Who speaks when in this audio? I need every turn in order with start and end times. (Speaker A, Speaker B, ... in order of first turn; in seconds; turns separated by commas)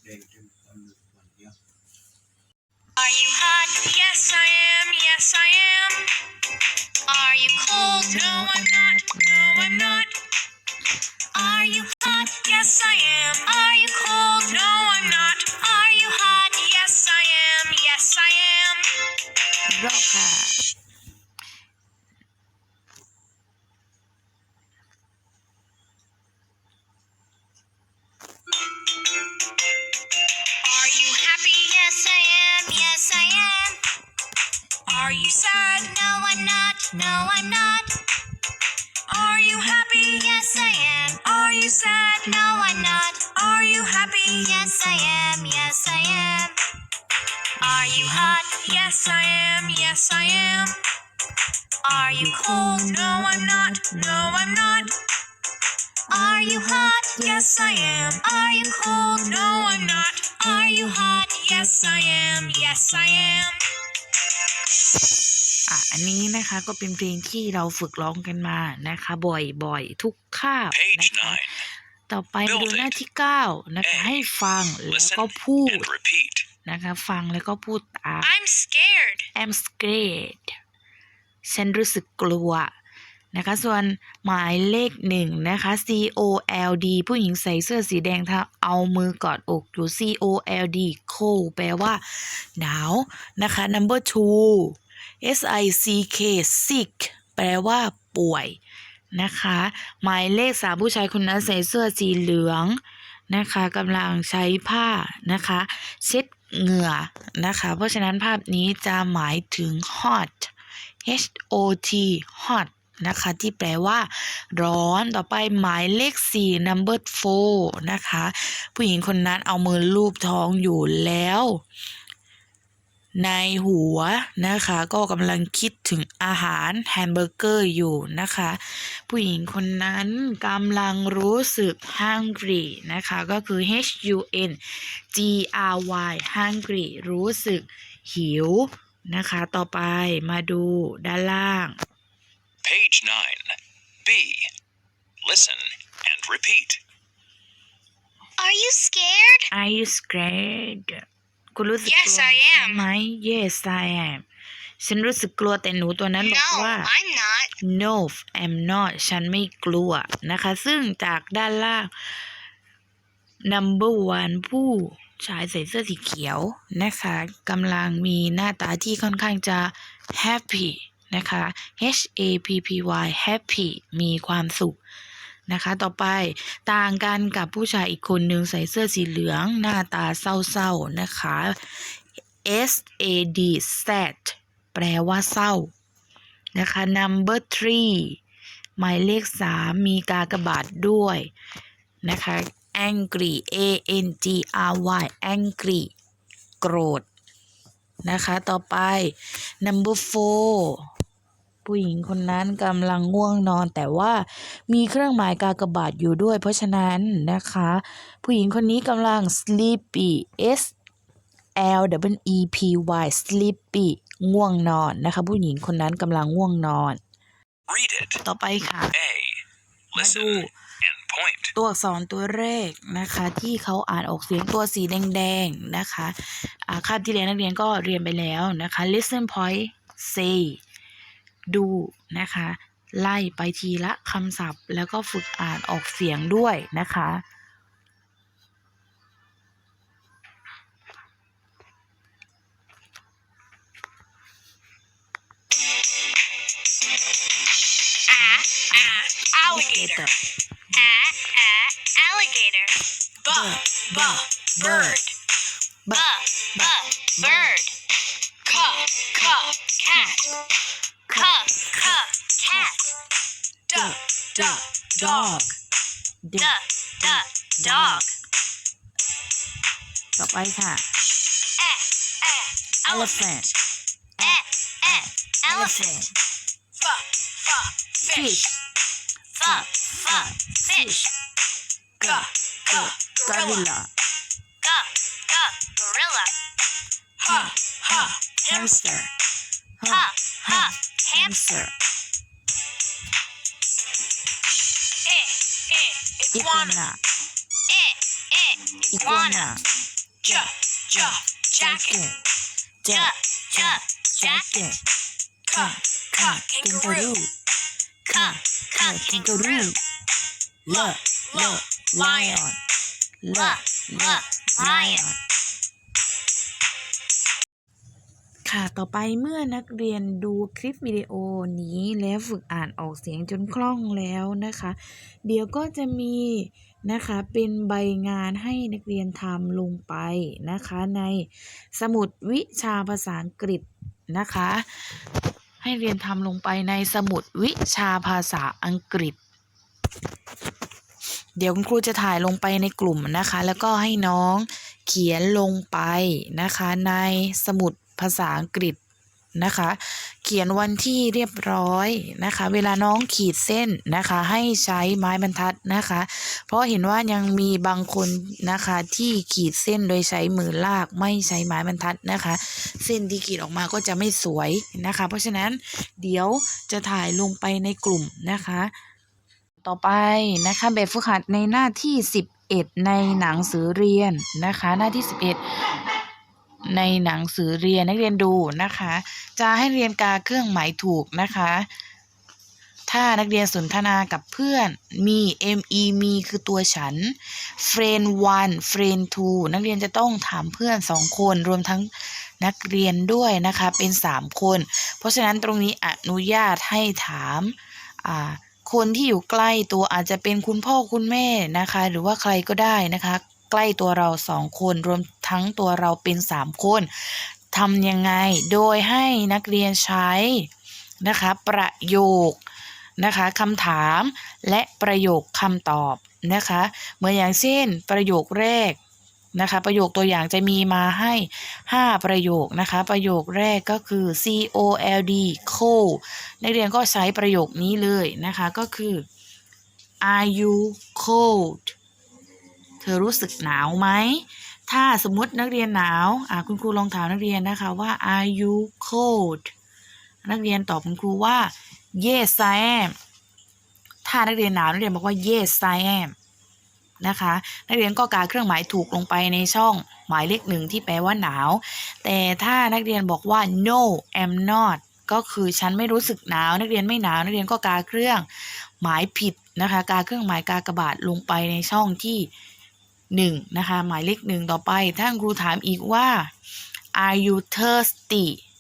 Speaker A: 3.0-6.1, Speaker A: 7.1-10.1, Speaker B: 7.7-10.1, Speaker A: 11.3-18.9, Speaker B: 19.7-20.6, Speaker A: 30.6-33.8, Speaker A: 34.9-37.9, Speaker A: 39.1-46.6, Speaker B: 47.6-49.9, Speaker A: 47.6-50.8, Speaker A: 51.8-54.9, Speaker B: 51.9-54.9, Speaker A: 56.1-63.6, Speaker B: 56.3-60.0, Speaker B: 60.6-63.5, Speaker B: 65.7-71.4, Speaker C: 70.7-71.7, Speaker B: 72.1-75.9, Speaker C: 72.4-73.0, Speaker C: 73.8-74.2, Speaker C: 74.9-76.5, Speaker B: 76.6-78.3, Speaker A: 78.2-79.3, Speaker B: 79.3-80.5, Speaker B: 81.5-82.7, Speaker B: 83.3-98.6, Speaker B: 99.1-102.8, Speaker B: 103.3-110.5, Speaker B: 111.0-121.6, Speaker B: 123.2-141.8, Speaker C: 142.6-144.5, Speaker C: 145.2-146.8, Speaker A: 148.4-149.5, Speaker B: 149.5-154.2, Speaker A: 151.8-152.8, Speaker B: 154.8-156.9, Speaker A: 156.2-157.5, Speaker B: 157.6-161.9, Speaker B: 163.5-174.8, Speaker B: 175.5-185.7, Speaker B: 186.5-188.2, Speaker B: 188.8-191.3, Speaker B: 192.0-195.9, Speaker B: 196.6-197.0, Speaker B: 198.0-200.8, Speaker B: 201.6-210.7, Speaker B: 211.6-217.0, Speaker C: 217.7-218.2, Speaker B: 218.2-218.9, Speaker C: 218.9-221.5, Speaker B: 219.9-220.5, Speaker B: 221.6-230.6, Speaker B: 231.5-237.2, Speaker A: 248.1-250.1, Speaker B: 248.7-250.1, Speaker A: 250.7-255.1, Speaker B: 253.3-255.0, Speaker B: 255.8-257.5, Speaker A: 255.9-257.7, Speaker A: 258.4-260.3, Speaker B: 261.1-262.7, Speaker A: 261.1-262.9, Speaker A: 263.7-265.5, Speaker B: 263.7-265.5, Speaker B: 266.2-268.0, Speaker A: 266.4-268.1, Speaker B: 270.2-270.8, Speaker A: 271.6-273.5, Speaker B: 272.9-273.5, Speaker B: 274.2-276.1, Speaker A: 274.2-275.8, Speaker A: 276.8-278.5, Speaker B: 278.0-278.6, Speaker A: 279.3-281.1, Speaker B: 279.4-281.1, Speaker B: 282.0-283.9, Speaker A: 282.0-283.7, Speaker A: 284.6-286.3, Speaker A: 287.2-289.0, Speaker B: 287.2-289.1, Speaker B: 289.8-291.7, Speaker A: 289.9-291.6, Speaker A: 295.1-296.9, Speaker B: 296.3-297.0, Speaker A: 297.7-299.5, Speaker B: 298.9-299.7, Speaker B: 300.2-302.2, Speaker A: 300.2-302.0, Speaker B: 302.8-304.8, Speaker A: 302.9-304.8, Speaker A: 305.5-307.1, Speaker B: 305.5-307.3, Speaker B: 308.1-309.8, Speaker A: 308.1-309.7, Speaker B: 310.6-312.6, Speaker A: 310.7-312.4, Speaker B: 313.2-315.1, Speaker A: 313.3-315.0, Speaker B: 318.4-334.8, Speaker B: 335.6-339.2, Speaker B: 341.4-348.8, Speaker B: 349.4-368.7, Speaker B: 369.6-375.4, Speaker B: 376.7-381.7, Speaker B: 382.9-410.5, Speaker B: 411.0-412.4, Speaker B: 413.0-418.8, Speaker B: 419.3-429.0, Speaker B: 430.0-431.8, Speaker B: 432.8-439.5, Speaker B: 440.2-442.9, Speaker B: 444.0-446.1, Speaker B: 447.0-458.3, Speaker B: 458.8-462.3, Speaker B: 463.1-466.3, Speaker B: 466.9-468.4